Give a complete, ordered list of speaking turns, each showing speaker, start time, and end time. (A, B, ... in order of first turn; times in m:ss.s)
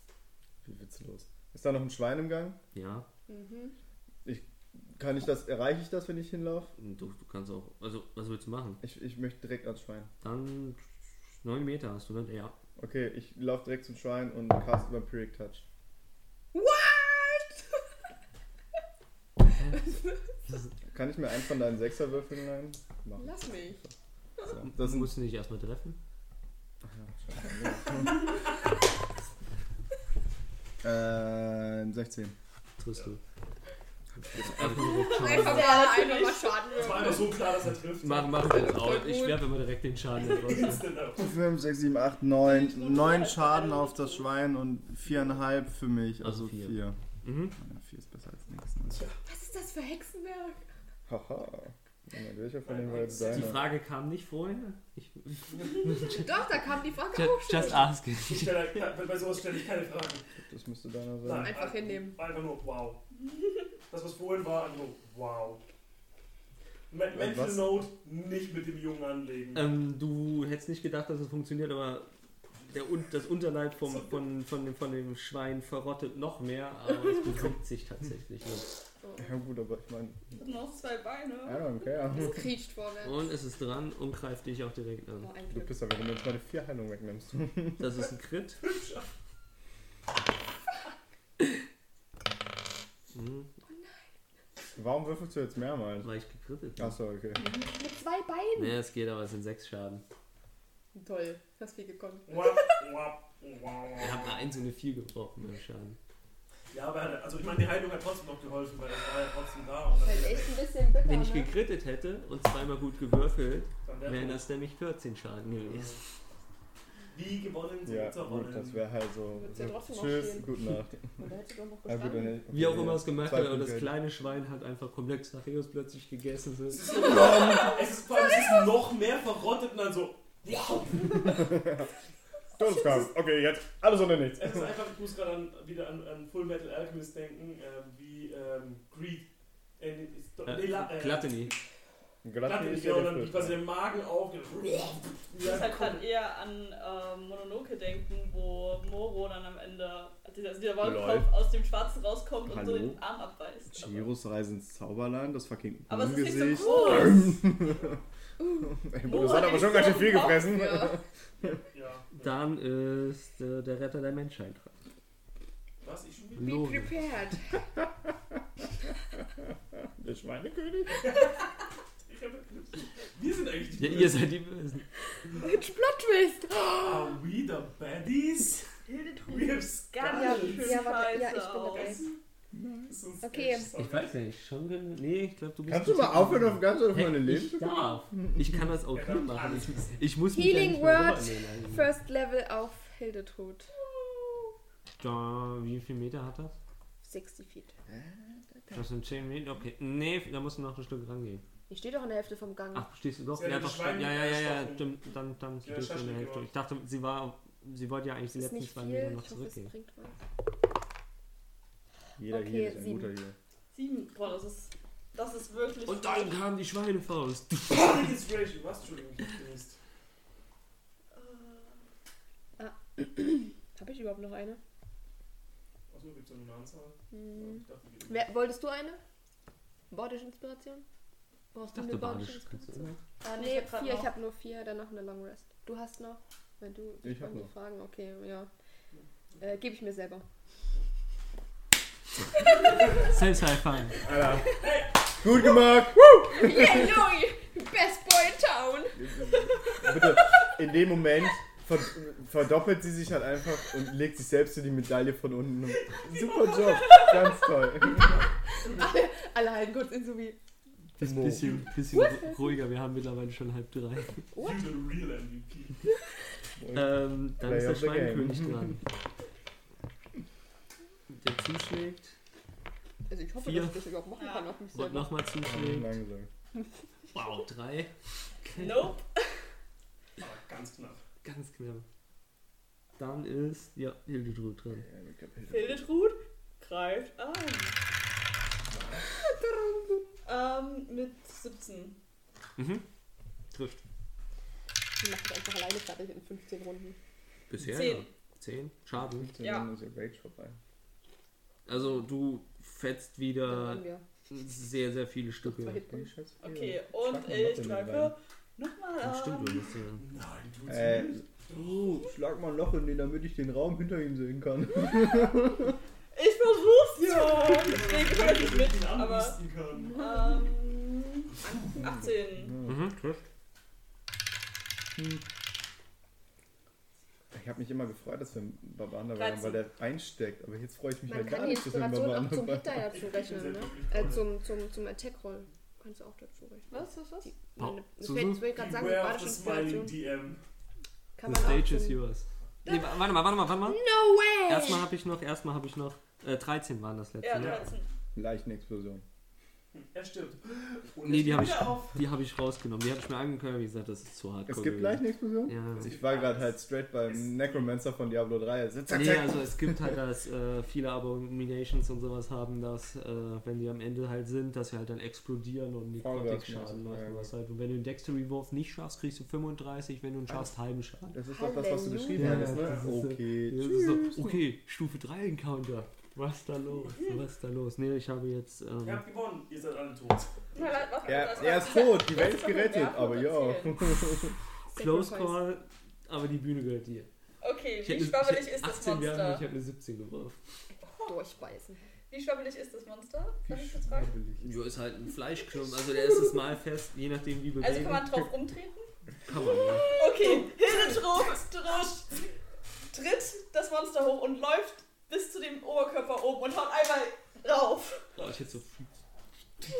0:00.6-0:02.6 A
0:02.7-0:03.1 B
0:03.3-0:03.7 C
0:04.2-0:06.7 A
0:06.8-0:08.8 B
0:08.8-0:10.1 A
0:10.2-0:10.8 B
0:11.4-0:12.6 B
0:12.8-0:15.6 A
0:16.5-0:17.6 C
0:19.5-0:19.9 B
0:20.4-0:20.7 B
0:20.9-0:23.9 A
0:23.2-0:23.8 C
0:24.4-0:25.1 A
0:24.6-0:26.0 B
0:26.8-0:28.4 A
0:30.8-0:32.3 A
0:32.8-0:33.2 B
0:34.2-0:35.2 A
0:34.3-0:35.9 B
0:34.8-0:36.9 D
0:35.1-0:37.4 C
0:36.7-0:38.6 E
0:38.0-0:40.9 B
0:38.3-0:39.5 C
0:40.2-0:41.3 E
0:41.2-0:47.0 A
0:42.4-0:44.2 D
0:46.2-0:47.5 B
0:47.5-0:49.0 A
0:49.2-0:50.6 C
0:51.1-0:53.6 A
0:52.6-0:53.6 E
0:53.3-0:56.3 B
0:56.0-0:57.9 C
0:57.1-0:58.9 B
0:58.2-1:00.3 E
1:00.4-1:01.6 A
1:01.2-1:03.0 E
1:01.3-1:02.2 C
1:03.9-1:05.6 E
1:06.9-1:09.7 E
1:07.1-1:07.8 A
1:09.5-1:18.7 B
1:13.8-1:14.2 E
1:19.0-1:19.3 C
1:19.2-1:20.4 A
1:20.4-1:21.7 D
1:21.4-1:22.5 A
1:22.0-1:23.3 C
1:23.0-1:25.3 B
1:25.2-1:25.8 C
1:25.5-1:27.9 A
1:27.8-1:28.6 B
1:28.6-1:29.1 E
1:33.1-1:33.5 B
1:33.7-1:34.0 C
1:34.8-1:36.1 A
1:36.0-1:37.0 B
1:36.8-1:37.4 A
1:37.4-1:38.8 C
1:38.6-1:40.0 B
1:40.9-1:42.7 C
1:42.2-1:44.4 E
1:44.0-1:46.0 B
1:46.7-1:50.6 E
1:50.0-1:51.5 C
1:51.0-1:56.0 B
1:53.8-1:54.5 E
1:55.7-1:56.0 E
1:57.1-1:58.8 E
1:57.8-2:01.2 A
1:59.3-2:00.5 C
2:01.1-2:02.4 C
2:01.8-2:04.0 A
2:02.5-2:07.0 B
2:06.7-2:11.6 E
2:11.2-2:11.9 A
2:12.5-2:14.7 A
2:14.3-2:19.3 E
2:19.8-2:21.5 E
2:20.4-2:21.5 B
2:22.2-2:23.6 A
2:22.4-2:26.1 E
2:25.4-2:34.1 D
2:30.8-2:31.3 A
2:32.4-2:33.0 A
2:33.7-2:37.9 A
2:35.9-2:37.4 D
2:36.6-2:37.1 C
2:37.7-2:38.0 E
2:38.4-2:38.7 C
2:38.6-2:41.6 A
2:39.0-2:40.6 D
2:40.3-2:41.0 C
2:41.5-2:42.4 E
2:42.2-2:44.8 B
2:45.8-2:46.6 E
2:46.4-2:46.9 B
2:46.4-2:47.7 C
2:49.8-2:51.1 A
2:51.0-2:54.3 E
2:53.8-2:54.8 B
2:55.4-2:57.2 C
2:56.7-2:58.7 E
2:58.9-3:02.1 D
2:59.2-3:01.0 E
3:00.1-3:02.1 C
3:01.7-3:02.1 E
3:02.5-3:03.0 A
3:02.9-3:04.1 E
3:03.2-3:03.7 C
3:03.7-3:11.9 B
3:05.7-3:08.4 A
3:08.9-3:10.1 E
3:10.3-3:13.7 C
3:15.0-3:16.5 B
3:17.0-3:17.7 C
3:18.7-3:21.4 B
3:21.7-3:22.9 C
3:22.7-3:29.7 B
3:23.3-3:25.0 E
3:25.6-3:26.5 E
3:28.3-3:30.2 C
3:32.2-3:33.3 A
3:32.3-3:33.1 C
3:33.7-3:36.4 D
3:35.8-3:38.1 B
3:37.7-3:39.8 E
3:41.1-3:41.8 D
3:42.6-3:44.6 C
3:45.9-3:48.3 E
3:47.1-3:49.0 C
3:49.9-3:50.8 C
3:51.5-3:58.5 C
3:51.7-3:53.0 B
3:53.2-3:54.1 D
3:57.0-3:57.5 A
3:59.4-4:00.2 C
4:02.7-4:03.0 E
4:03.0-4:04.0 B
4:03.9-4:05.2 E
4:04.0-4:04.6 A
4:05.2-4:07.0 A
4:06.3-4:10.2 C
4:09.0-4:18.2 A
4:16.6-4:17.2 D
4:17.9-4:18.8 E
4:18.6-4:20.4 C
4:21.0-4:21.6 A
4:21.0-4:24.2 B
4:21.9-4:22.5 C
4:24.3-4:24.7 C
4:24.4-4:25.8 E
4:26.6-4:28.8 A
4:26.7-4:28.8 B
4:31.1-4:32.1 B
4:33.1-4:35.1 C
4:33.4-4:33.8 B
4:34.1-4:34.5 D
4:34.7-4:36.0 B
4:35.4-4:36.3 A
4:37.1-4:37.9 B
4:38.4-4:38.9 B
4:38.6-4:39.3 D
4:40.2-4:41.0 E
4:41.2-4:41.8 B
4:43.0-4:44.9 B
4:44.8-4:45.9 A
4:45.5-4:47.8 D
4:49.2-4:50.2 C
4:50.2-4:52.0 D
4:52.6-4:52.8 B
4:53.5-4:53.8 B
4:55.0-4:57.0 C
4:57.5-4:59.3 B
4:57.6-4:58.1 D
4:59.0-5:00.6 A
4:59.4-4:59.7 D
5:01.6-5:05.9 B
5:03.4-5:04.0 C
5:05.4-5:06.1 C
5:05.9-5:08.1 A
5:06.4-5:09.7 D
5:09.0-5:10.0 B
5:10.0-5:11.7 E
5:10.7-5:15.7 A
5:16.1-5:19.4 D
5:17.0-5:20.1 E
5:19.9-5:20.5 C
5:19.9-5:22.6 D
5:21.4-5:21.9 E
5:21.4-5:21.8 C
5:22.3-5:22.8 A
5:22.6-5:23.2 B
5:25.0-5:25.2 A
5:27.3-5:32.9 A
5:29.1-5:29.6 D
5:31.1-5:40.0 C
5:32.9-5:34.3 E
5:36.7-5:37.3 D
5:37.6-5:38.4 B
5:38.5-5:40.4 E
5:41.2-5:42.0 C
5:41.2-5:43.8 B
5:42.6-5:42.9 C
5:43.6-5:44.9 C
5:44.4-5:47.6 B
5:47.2-5:47.9 D
5:47.3-5:47.7 E
5:48.1-5:49.0 A
5:49.8-5:52.0 E
5:51.0-5:55.9 B
5:54.5-6:00.0 A
5:55.8-5:57.7 E
5:58.9-6:11.2 B
6:06.0-6:07.3 A
6:11.1-6:14.4 A
6:11.3-6:12.6 C
6:12.1-6:19.0 B
6:12.5-6:12.8 E
6:18.8-6:21.4 E
6:20.5-6:23.8 D
6:21.0-6:24.4 A
6:24.7-6:25.4 C
6:24.7-6:27.1 B
6:27.4-6:29.4 D
6:27.8-6:30.4 B
6:30.8-6:31.1 D
6:31.0-6:31.8 C
6:32.1-6:34.1 D
6:33.5-6:34.6 A
6:34.4-6:38.3 B
6:37.6-6:38.9 D
6:39.2-6:39.9 B
6:39.9-6:42.2 D
6:42.9-6:48.1 D
6:48.2-6:48.9 B